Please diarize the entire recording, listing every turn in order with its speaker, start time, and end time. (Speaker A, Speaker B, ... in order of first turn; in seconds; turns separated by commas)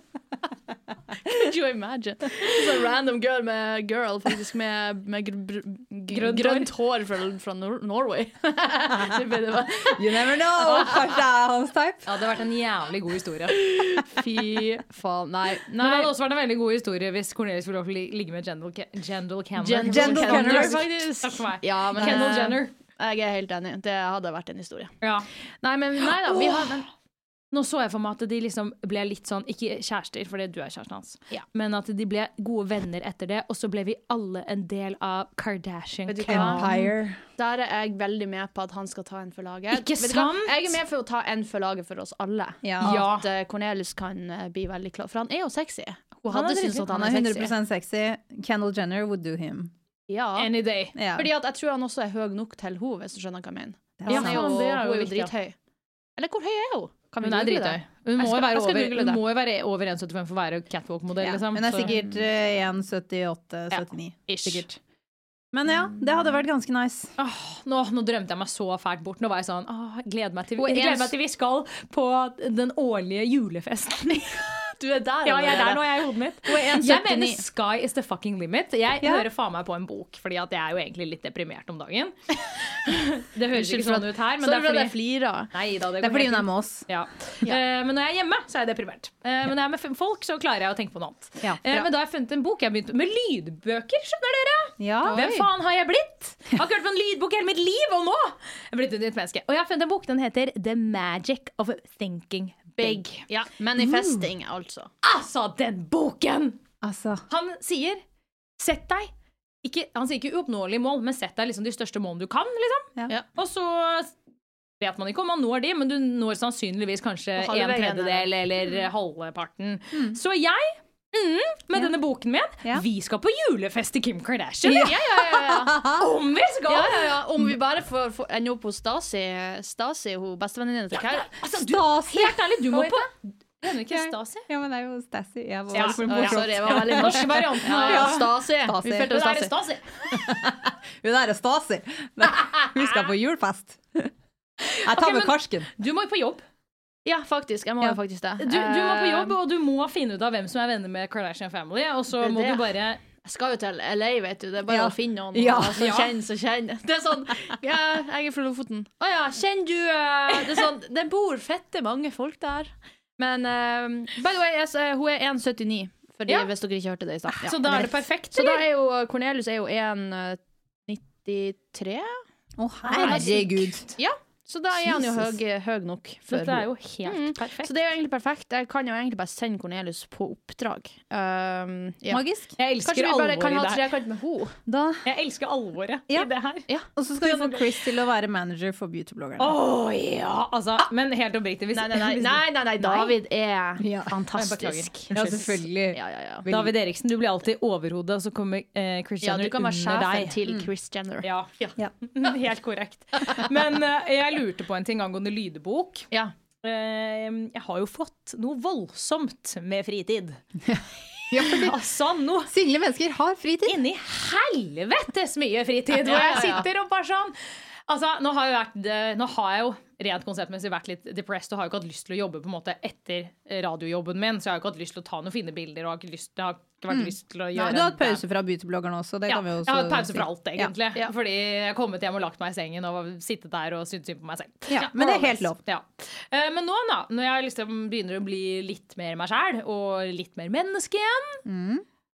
Speaker A: 1.2-11.0, Speaker B: 6.1-6.7, Speaker C: 9.9-12.0, Speaker B: 12.1-14.0, Speaker A: 13.6-16.1, Speaker B: 15.8-22.7, Speaker A: 19.6-24.9, Speaker C: 19.9-20.9, Speaker C: 22.0-22.4, Speaker B: 25.0-25.3, Speaker A: 25.6-26.9, Speaker B: 26.3-26.7, Speaker B: 27.5-36.8, Speaker A: 36.1-36.7, Speaker C: 36.3-37.2, Speaker A: 37.4-47.5, Speaker B: 39.7-40.8, Speaker C: 42.6-43.0, Speaker B: 42.8-43.3, Speaker B: 46.3-46.9, Speaker C: 46.9-49.7, Speaker A: 50.1-50.5, Speaker B: 50.4-51.0, Speaker C: 51.0-51.3, Speaker A: 51.1-55.6, Speaker C: 54.0-54.5, Speaker B: 54.1-55.3, Speaker A: 56.2-59.2, Speaker B: 57.2-62.0, Speaker C: 61.2-64.7, Speaker B: 63.7-64.7, Speaker C: 65.5-67.1, Speaker B: 67.2-74.4, Speaker A: 70.6-71.1, Speaker A: 74.8-75.8, Speaker B: 75.2-85.0, Speaker C: 76.5-77.2, Speaker A: 76.8-77.4, Speaker C: 79.0-79.3, Speaker A: 83.5-85.5, Speaker B: 85.5-103.4, Speaker C: 86.0-86.9, Speaker C: 91.4-91.8, Speaker C: 94.8-95.2, Speaker A: 95.0-95.5, Speaker A: 102.8-104.9, Speaker C: 103.8-104.2, Speaker B: 105.0-106.6, Speaker C: 106.8-107.2, Speaker B: 107.3-108.0, Speaker B: 108.6-109.1, Speaker B: 109.6-114.1, Speaker B: 114.8-125.0, Speaker A: 117.4-118.3, Speaker C: 124.6-126.0, Speaker A: 124.7-125.8, Speaker B: 125.8-127.2, Speaker A: 126.7-131.3, Speaker B: 130.9-134.4, Speaker C: 131.6-133.1, Speaker C: 133.8-139.1, Speaker B: 135.7-140.2, Speaker A: 135.7-139.5, Speaker C: 140.1-144.1, Speaker B: 142.6-143.0, Speaker B: 144.6-146.4, Speaker C: 144.8-145.7, Speaker A: 147.1-149.4, Speaker B: 148.4-153.0, Speaker A: 152.2-172.2, Speaker C: 154.7-156.0, Speaker B: 155.8-156.1, Speaker B: 167.4-168.6, Speaker C: 172.6-173.9, Speaker A: 172.9-182.2, Speaker B: 173.0-173.7, Speaker C: 174.8-175.4, Speaker B: 176.3-177.7, Speaker C: 182.1-182.6, Speaker B: 182.6-183.8, Speaker A: 182.8-184.6, Speaker C: 184.7-185.1, Speaker B: 185.1-186.7, Speaker C: 186.9-189.6, Speaker B: 189.4-193.1, Speaker A: 191.7-196.5, Speaker C: 193.8-194.2, Speaker B: 194.3-195.2, Speaker C: 195.1-196.7, Speaker B: 196.4-200.3, Speaker A: 199.2-201.7, Speaker B: 201.2-206.1, Speaker B: 206.6-210.4, Speaker C: 210.7-211.8, Speaker B: 211.3-212.5, Speaker C: 212.5-213.8, Speaker B: 213.7-217.4, Speaker A: 215.9-216.7, Speaker B: 217.9-228.2, Speaker C: 226.9-230.7, Speaker B: 229.3-241.4, Speaker C: 234.7-235.6, Speaker C: 241.4-241.8